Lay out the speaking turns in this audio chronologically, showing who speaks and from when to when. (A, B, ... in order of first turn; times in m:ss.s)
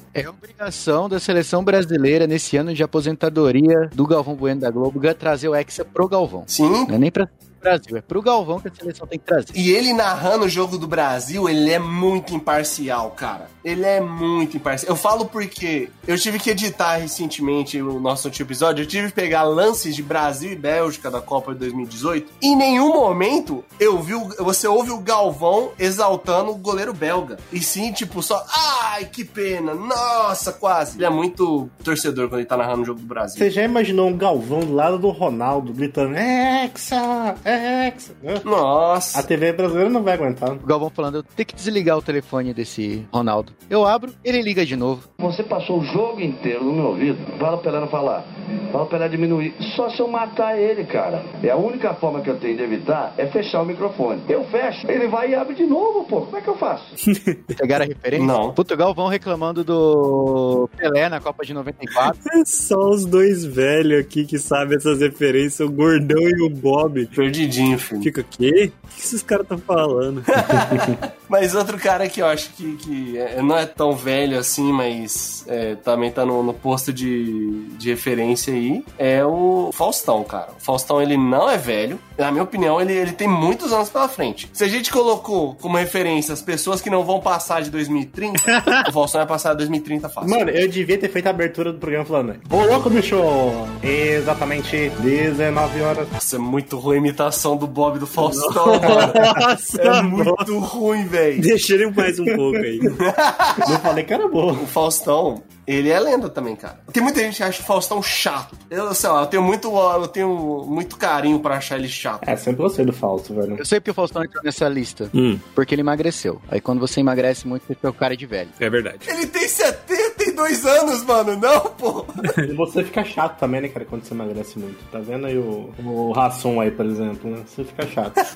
0:00.2-0:09.6 A
0:06.5-0:06.9 B
0:09.5-0:33.5 B
0:33.4-0:38.4 C
0:38.4-0:39.3 B
0:39.1-0:40.6 C
0:40.6-0:45.1 A
0:45.2-0:56.9 D
0:57.6-1:02.2 A
0:58.2-0:58.6 B
1:02.2-1:07.1 E
1:07.1-1:08.1 B
1:08.0-1:10.5 E
1:10.4-1:30.5 B
1:30.2-1:36.1 C
1:36.2-1:41.5 B
1:38.2-1:40.5 E
1:38.8-1:39.4 C
1:41.4-1:43.0 E
1:42.0-1:42.9 C
1:43.0-1:43.7 B
1:43.6-1:44.7 C
1:44.6-1:52.2 B
1:52.2-1:53.6 C
1:53.6-1:58.5 A
1:55.1-1:55.4 E
1:58.6-1:59.1 E
1:59.0-2:02.2 B
2:02.4-2:08.2 C